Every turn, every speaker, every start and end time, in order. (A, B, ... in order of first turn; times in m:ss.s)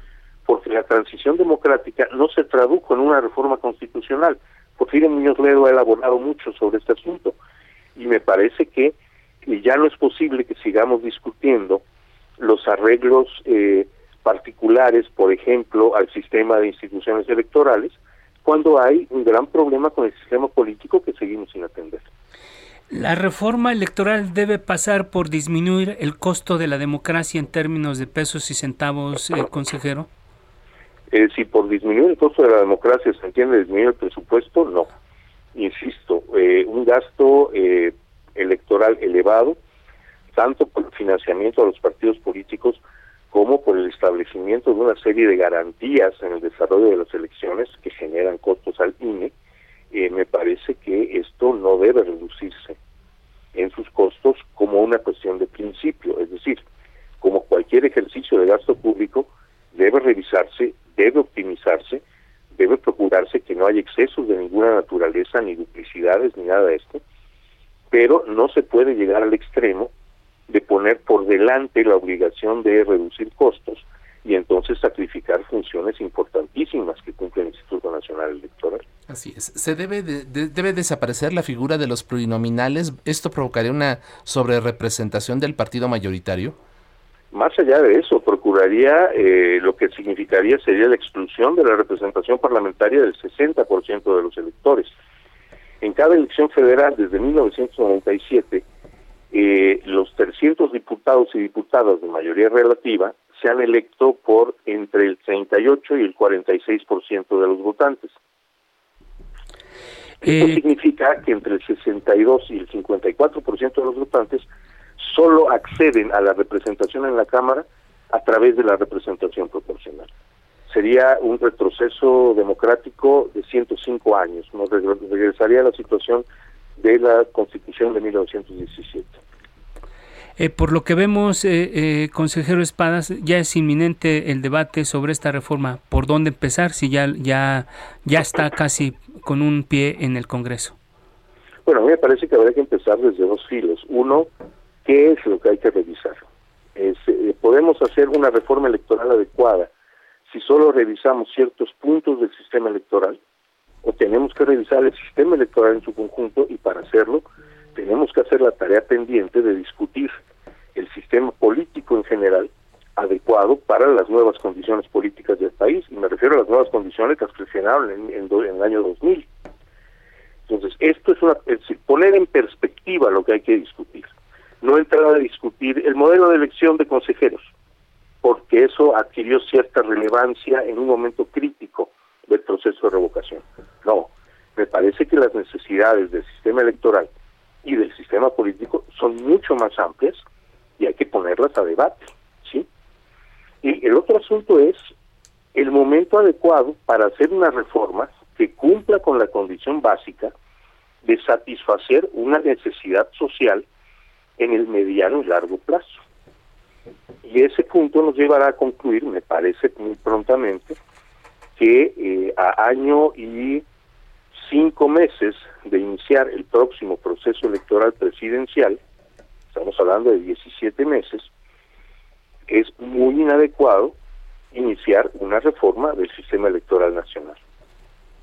0:00.4-0:07.4 A
0:08.0-0:11.8 A
0:12.4-0:22.1 A
0:22.9-0:30.1 B
0:31.1-0:34.9 A
0:35.5-0:39.6 A
0:40.3-0:49.3 A
0:49.9-0:52.8 A
0:53.5-0:56.6 A
0:57.2-1:02.0 A
1:02.5-1:07.0 A
1:07.9-1:09.9 A
1:10.5-1:18.8 A
1:19.1-1:26.6 C
1:27.3-1:34.9 A
1:35.8-1:38.6 A
1:39.3-1:48.2 A
1:50.2-1:54.4 A
1:50.2-1:50.6 B
1:55.0-2:00.1 A
2:00.7-2:06.2 A
2:06.8-2:09.2 A
2:10.4-2:20.8 B
2:21.6-2:24.3 A
2:24.8-2:29.7 A
2:30.3-2:33.2 A
2:33.8-2:40.2 A
2:40.7-2:49.3 A
2:50.5-2:57.5 A
2:58.2-3:07.1 A
3:07.6-3:10.2 A
3:10.8-3:12.7 A
3:13.6-3:14.8 A
3:15.5-3:20.3 A
3:21.0-3:23.6 A
3:24.4-3:26.0 A
3:27.2-3:30.8 A
3:31.6-3:33.6 A
3:34.3-3:38.8 A
3:39.5-3:41.3 A
3:42.5-3:44.0 A
3:44.5-3:47.4 A